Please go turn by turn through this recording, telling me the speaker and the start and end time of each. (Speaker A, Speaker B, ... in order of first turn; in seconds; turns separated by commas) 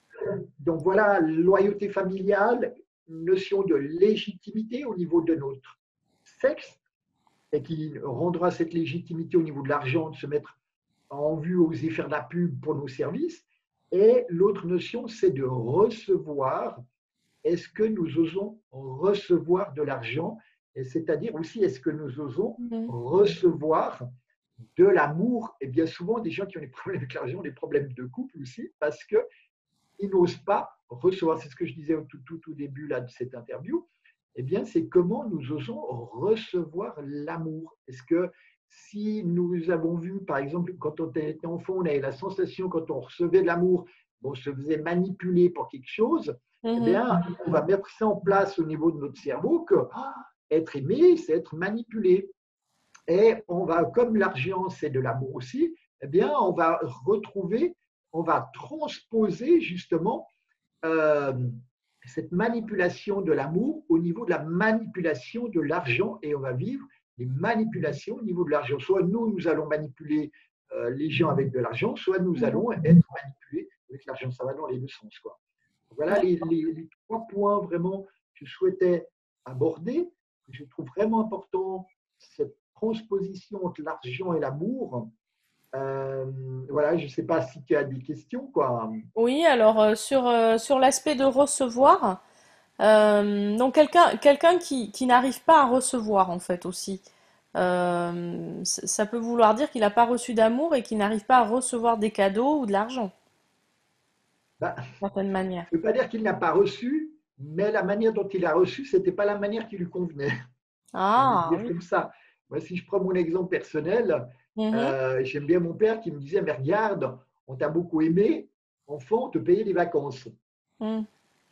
Speaker A: 0.2-6.8, Speaker A: 7.5-10.6, Speaker A: 11.1-16.8, Speaker A: 17.4-24.0, Speaker B: 22.6-22.9, Speaker A: 24.8-29.2, Speaker A: 30.0-52.3, Speaker B: 46.6-47.0, Speaker A: 53.1-60.3, Speaker A: 60.8-75.4, Speaker A: 75.9-85.1, Speaker A: 85.7-89.0, Speaker B: 89.2-92.2, Speaker B: 92.8-97.0, Speaker B: 97.5-103.1, Speaker B: 105.0-105.7, Speaker A: 105.7-110.3, Speaker B: 110.9-111.7, Speaker A: 111.2-120.3, Speaker B: 114.6-114.9, Speaker B: 120.8-121.0